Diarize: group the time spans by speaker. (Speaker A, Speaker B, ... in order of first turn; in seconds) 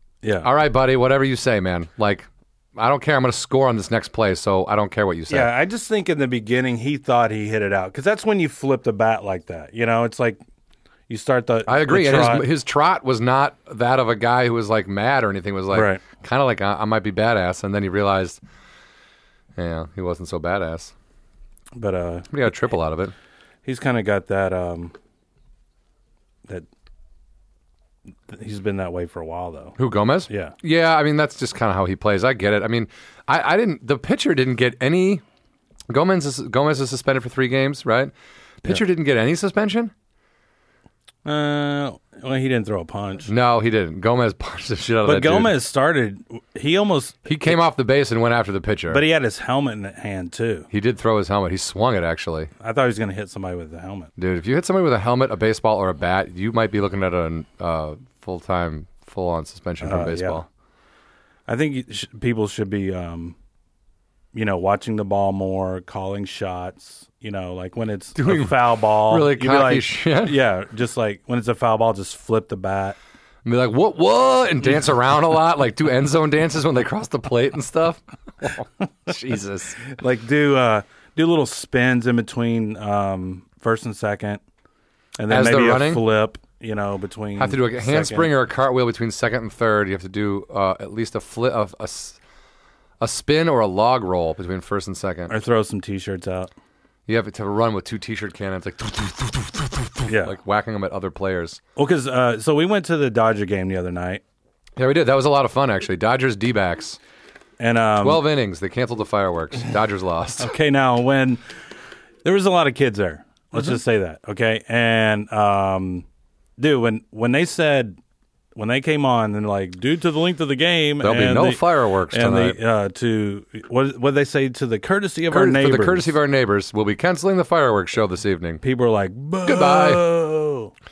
Speaker A: 0.2-0.5, 5.3-10.4, 11.1-12.5, 15.7-16.0, 21.8-22.3, 23.6-24.9, 28.3-29.8, 30.3-30.5, 41.2-43.3, 45.0-47.6, 48.9-50.7, 52.6-54.1, 59.8-60.4, 61.5-63.4, 64.3-73.0, 79.9-84.4, 85.2-88.3, 95.3-96.5, 100.1-100.3, 101.8-104.2, 107.6-108.2, 110.4-111.4, 112.2-116.0, 116.6-118.0, 118.5-126.1, 128.6-130.7
Speaker B: 0.4-5.5, 11.7-18.4, 19.6-20.9, 22.3-23.1, 29.8-35.2, 35.9-39.9, 43.3-45.5, 47.2-49.0, 50.7-52.5, 54.2-60.5, 68.2-70.4, 73.4-79.8, 85.3-86.0, 87.4-92.2, 93.0-95.3, 97.1-101.6, 104.8-107.0, 108.0-110.5, 121.0-122.6, 125.3-128.6, 129.4-130.0